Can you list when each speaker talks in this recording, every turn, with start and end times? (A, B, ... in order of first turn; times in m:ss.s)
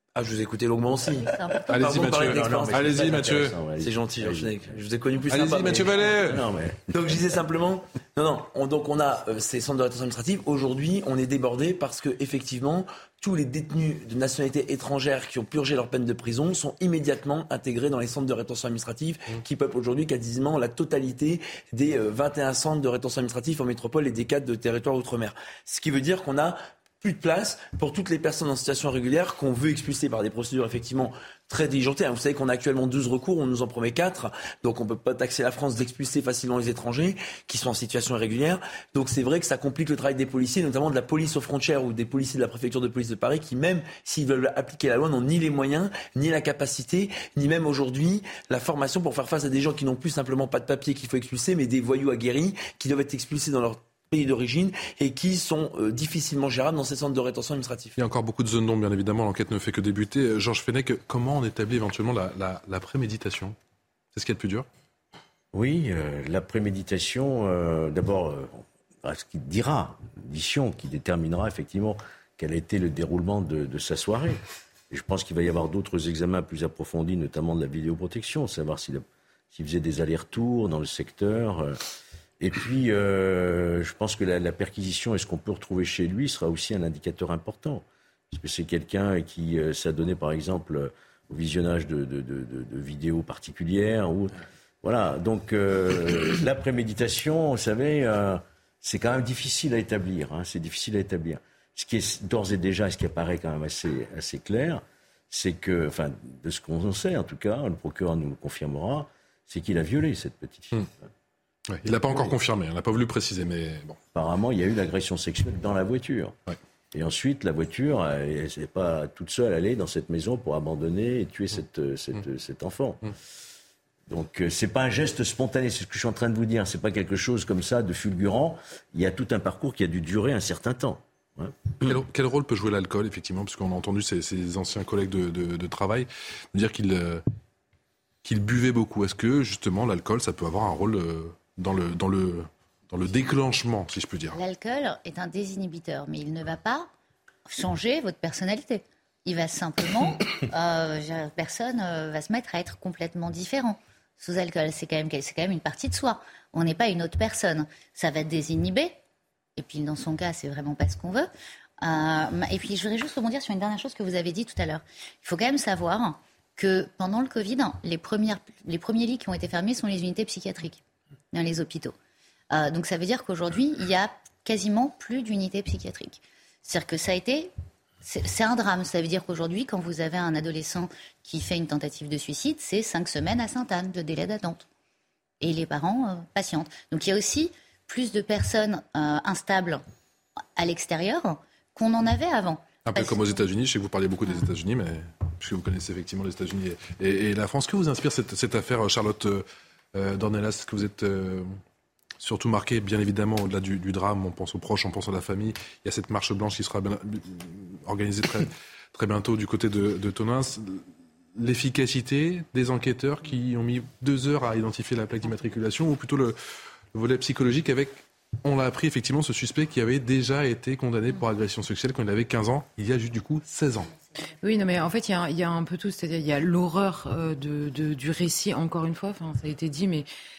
0:00.1-0:58.0 A
0:01.2-0:01.8 B
0:01.7-0:03.6 C
0:02.4-0:04.7 D
0:05.3-0:06.5 C
0:06.1-0:06.9 D
0:58.0-1:03.6 C
1:04.1-1:04.7 C
1:05.5-1:14.4 D
1:14.9-1:21.8 D
1:22.4-1:51.1 D
1:51.7-1:54.0 C
1:54.1-1:56.4 D
1:56.9-2:03.1 D
2:04.1-2:12.0 D
2:11.8-2:17.2 C
2:18.2-2:24.4 C
2:24.3-2:26.9 B
2:27.5-2:38.9 B
2:39.6-2:41.3 B
2:41.8-2:50.8 B
2:51.3-2:51.9 B
2:52.5-2:57.5 B
2:58.0-3:04.6 B
3:05.4-3:09.8 B
3:10.6-3:13.4 B
3:12.8-3:21.5 C
3:22.2-3:30.8 C
3:31.4-3:36.4 C
3:36.9-3:43.9 C
3:44.4-3:50.1 E